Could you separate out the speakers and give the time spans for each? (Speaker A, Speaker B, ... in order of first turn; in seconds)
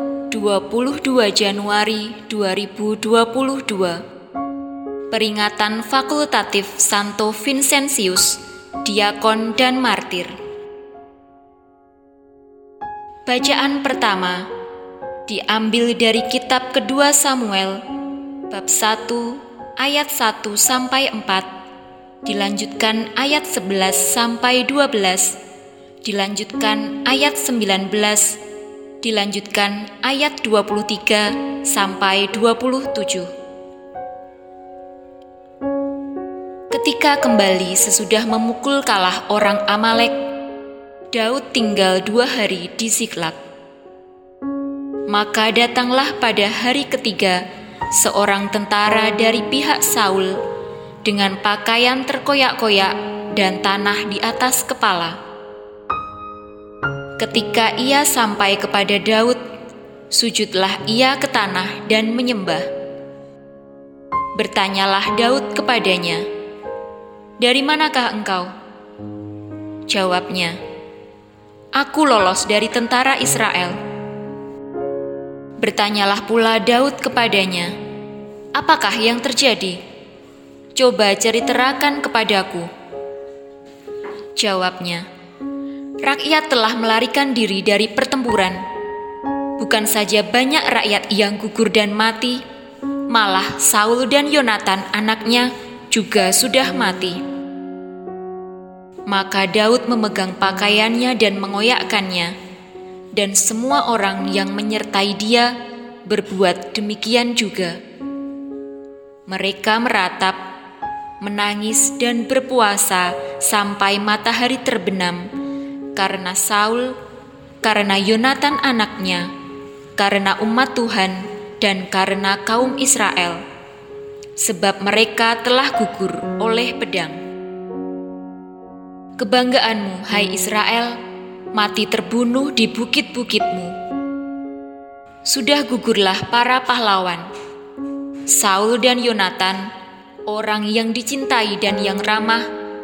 Speaker A: 0.3-4.0, 5.1-10.3, 13.2-14.5, 15.3-17.8, 18.5-21.5, 22.2-25.4, 26.0-28.4, 29.0-33.3, 36.7-40.1, 41.1-43.4, 45.1-50.4, 51.0-55.2, 57.2-59.4, 60.1-62.7, 64.3-66.3, 67.4-68.5, 69.9-70.6, 71.8-73.8, 75.6-77.7, 78.5-79.8, 80.7-82.7, 84.3-85.0, 86.0-88.6, 89.6-92.4, 93.1-97.2, 99.1-102.3, 103.1-105.5, 106.0-107.8, 109.3-110.4, 111.2-115.3, 115.9-117.0, 117.6-119.3, 120.0-123.4, 124.4-127.2, 129.2-131.0, 131.5-133.7, 135.2-137.3, 138.3-139.7, 140.3-142.5